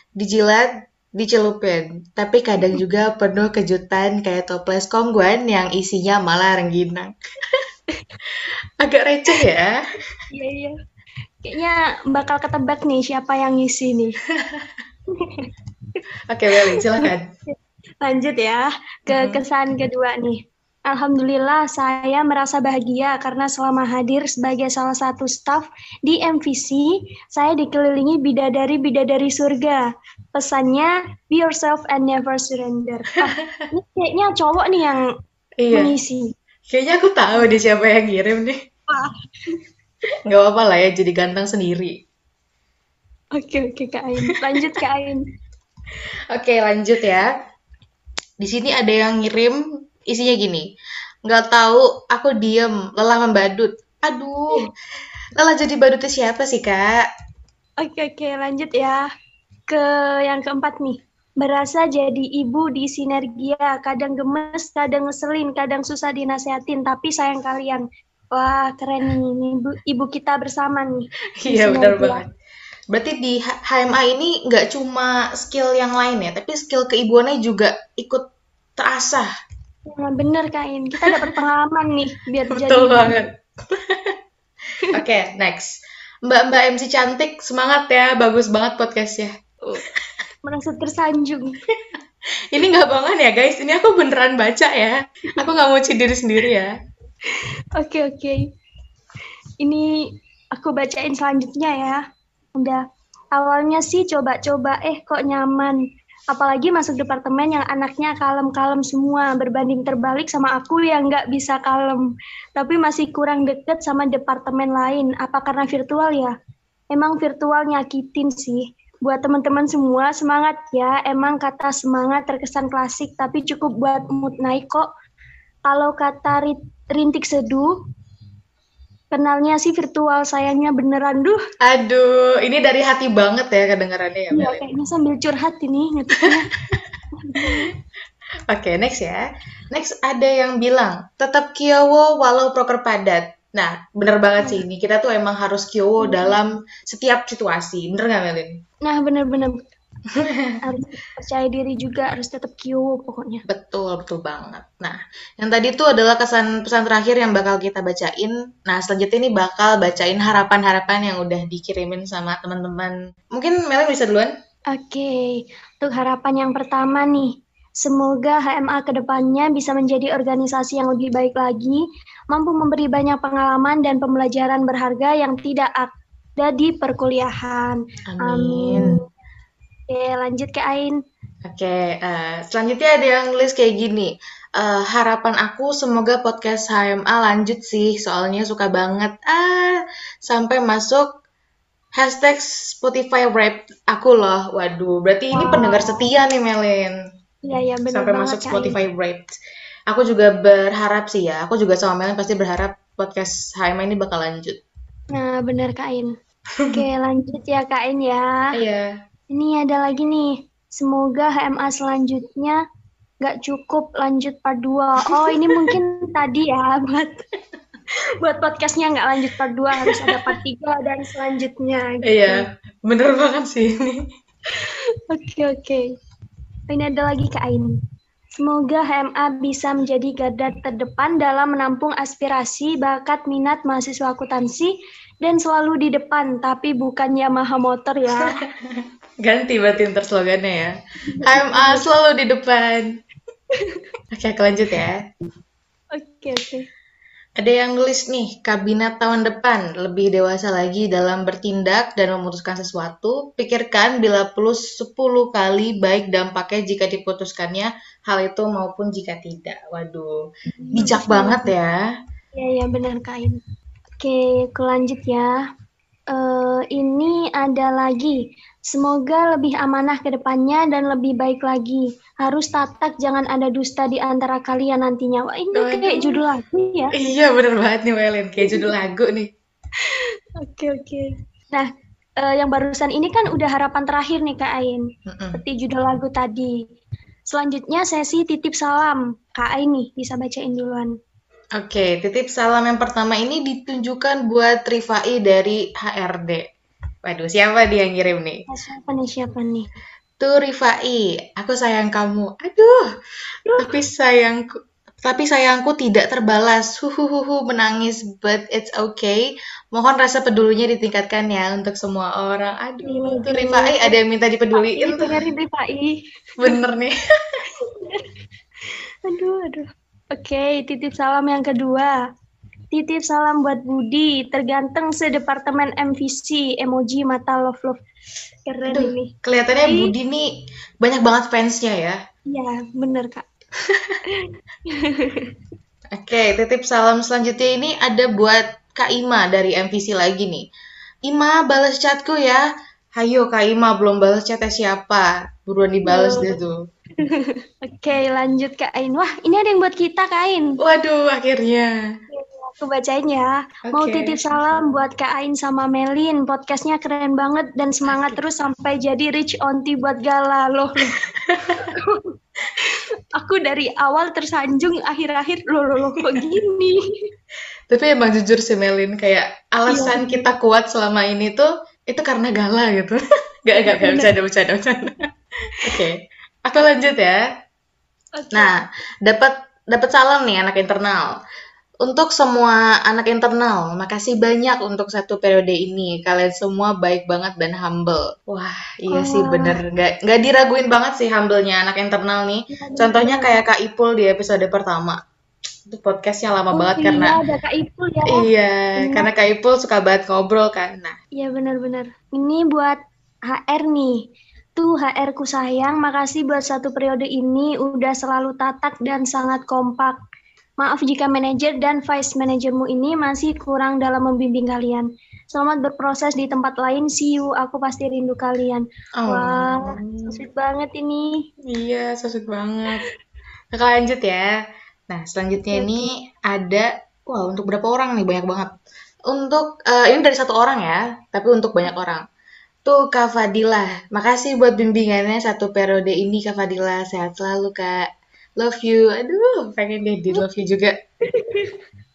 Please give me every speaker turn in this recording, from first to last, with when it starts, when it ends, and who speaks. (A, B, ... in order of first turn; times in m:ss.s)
0:00.2-0:07.6 A
0:08.8-0:09.7 A
0:10.3-0:10.7 B
0:11.4-0:14.1 B
0:14.4-0:14.7 A
0:15.2-0:15.5 B
0:16.3-0:17.3 A
0:17.0-0:35.0 B
0:19.1-0:19.4 A
0:33.3-0:33.6 A
0:35.6-0:35.9 A
0:35.7-0:36.3 B
0:36.7-0:38.6 A
0:38.9-0:39.6 B
0:40.2-0:42.0 A
0:43.4-0:45.2 B
0:46.3-0:47.3 A
0:48.4-0:50.6 A
0:51.2-0:54.7 A
0:55.4-0:57.0 A
0:57.8-0:59.1 B
0:59.7-1:12.2 B
1:11.4-1:12.2 A
1:12.9-1:18.2 A
1:18.8-1:19.3 A
1:19.8-1:23.2 B
1:22.5-1:24.2 A
1:24.8-1:25.7 A
1:26.2-1:29.3 A
1:30.4-1:31.6 B
1:32.5-1:36.7 A
1:37.3-1:38.4 B
1:39.6-1:39.9 B
1:40.5-1:42.0 B
1:42.6-1:42.8 B
1:43.3-1:45.8 B
1:46.3-1:52.0 B
1:52.6-1:56.3 B
1:56.9-2:04.9 B
2:05.7-2:07.7 B
2:09.1-2:11.4 B
2:11.6-2:14.7 A
2:14.3-2:16.5 B
2:17.2-2:17.6 B
2:18.5-2:28.6 A
2:26.0-2:26.4 B
2:28.8-2:29.6 B
2:30.2-2:30.6 A
2:30.6-2:33.4 B
2:33.5-2:44.3 A
2:44.7-2:59.0 B
2:58.1-2:59.0 A
2:59.9-3:01.0 B
3:01.4-3:11.1 A
3:12.0-3:16.9 A
3:15.3-3:16.0 B
3:17.4-3:18.8 B
3:17.9-3:19.3 A
3:19.9-3:24.6 A
3:25.1-3:26.1 B
3:26.6-3:26.8 A
3:26.7-3:28.5 B
3:28.5-3:28.9 A
3:29.3-3:32.6 B
3:33.2-3:37.2 B
3:35.1-3:35.7 A
3:38.2-3:42.4 B
3:39.8-3:40.3 A
3:42.0-3:44.0 A
3:44.5-3:45.8 B
3:46.7-3:47.7 B
3:48.4-3:58.3 B
3:58.1-4:03.0 A
4:01.1-4:01.8 B
4:03.5-4:03.8 B
4:04.1-4:05.1 A
4:05.9-4:06.7 B
4:07.4-4:20.2 A
4:20.5-4:21.5 B
4:20.7-4:21.8 A
4:22.3-4:23.4 B
4:24.0-4:25.3 B
4:26.1-4:28.2 B
4:28.7-4:36.9 B
4:35.5-4:36.2 A
4:37.0-4:39.3 A
4:38.4-4:38.7 B
4:39.9-4:41.7 B
4:42.2-4:44.8 B
4:45.1-4:45.4 A
4:45.3-4:46.5 B
4:47.3-4:50.9 B
4:51.6-4:56.4 A
4:57.0-4:58.4 A
4:58.5-4:59.7 B
5:00.2-5:02.9 A
5:03.6-5:15.2 A
5:12.8-5:14.0 B
5:14.5-5:15.9 B
5:16.4-5:17.4 A
5:17.6-5:18.0 B
5:19.1-5:22.0 B
5:22.7-5:27.8 B
5:28.5-5:29.9 B
5:28.7-5:32.0 A
5:32.3-5:33.2 B
5:33.6-5:34.0 A
5:34.1-5:35.3 B
5:36.0-5:40.4 A
5:41.0-5:42.4 A
5:43.0-5:46.6 A
5:45.9-5:46.4 B
5:47.0-5:50.6 B
5:50.6-5:52.0 A
5:52.1-6:00.8 B
5:53.7-5:54.2 A
5:57.9-5:58.2 A
6:01.0-6:01.7 A
6:01.7-6:06.8 B
6:07.7-6:14.9 A
6:09.7-6:10.2 B
6:13.6-6:14.2 B
6:15.6-6:17.2 A
6:18.1-6:18.5 B
6:18.3-6:21.1 A
6:21.8-6:35.0 A
6:28.9-6:29.6 B
6:32.5-6:33.4 B
6:35.7-6:37.2 A
6:36.5-6:38.3 B
6:38.0-6:41.0 A
6:38.8-6:39.1 B
6:41.2-6:42.8 B
6:43.3-6:44.0 B
6:44.6-6:50.0 B
6:50.6-7:01.1 B
6:59.0-7:00.2 A
7:01.4-7:02.8 A
7:03.5-7:04.3 A
7:04.9-7:08.5 A
7:05.5-7:05.9 B
7:09.1-7:12.0 A
7:12.6-7:17.9 A
7:18.4-7:20.7 A
7:21.0-7:21.6 B